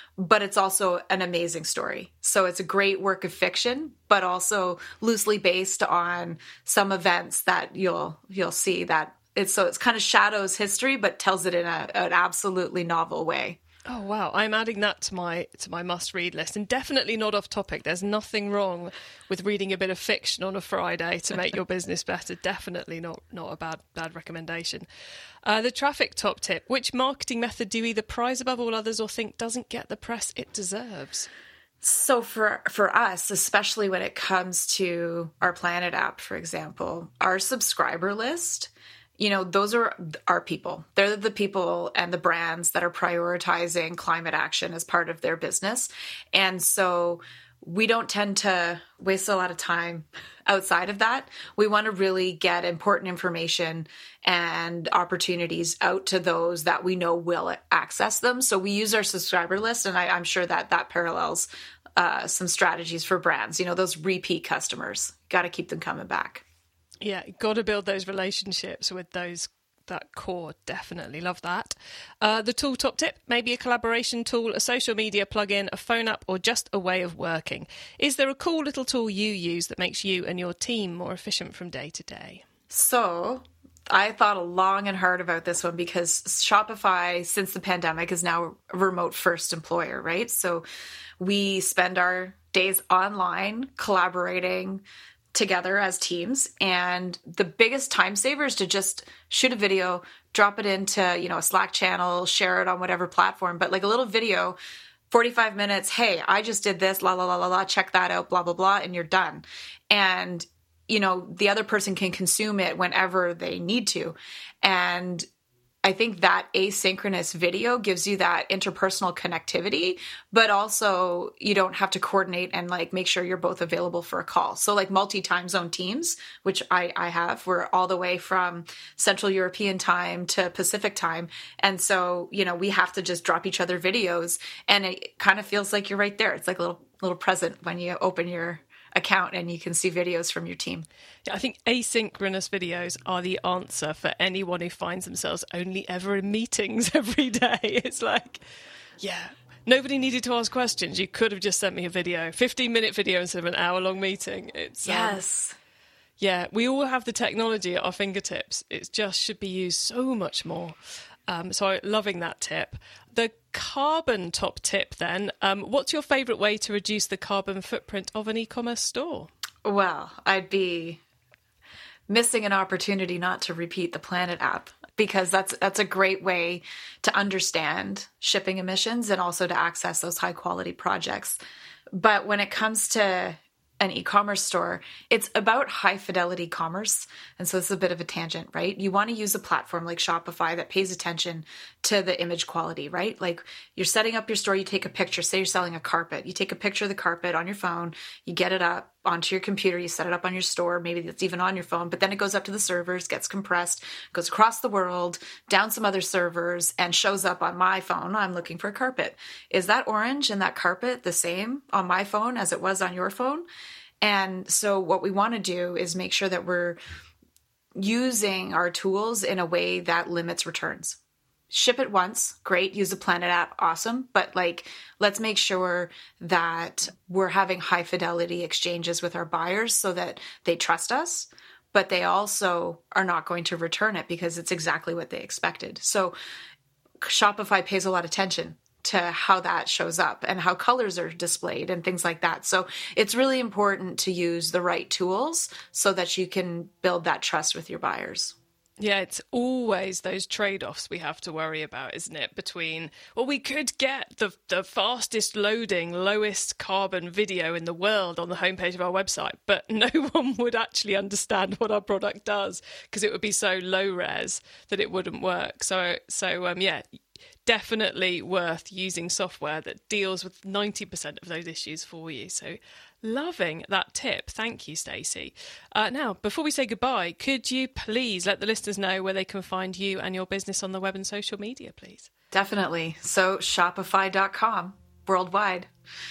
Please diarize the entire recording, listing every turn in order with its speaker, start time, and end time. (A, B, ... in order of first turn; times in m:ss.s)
0:00.2-0:13.6 A
0:13.9-0:24.9 B
0:25.4-0:31.3 B
0:31.8-1:06.4 A
1:07.0-1:22.4 B
1:22.7-1:30.6 A
1:31.2-1:34.8 A
1:35.3-1:44.6 A
1:45.1-1:55.3 A
1:55.8-2:20.9 A
2:21.3-2:28.4 B
2:29.0-2:35.2 B
2:34.8-2:35.6 A
2:36.2-2:40.8 B
2:41.3-2:49.3 B
2:49.6-2:51.0 A
2:52.1-3:01.4 A
3:02.0-3:33.4 A
3:34.0-3:36.8 A
3:37.8-3:41.0 A
3:41.5-3:56.2 A
3:57.0-4:08.4 A
4:08.8-4:26.8 B
4:27.5-4:42.1 B
4:42.3-4:45.7 A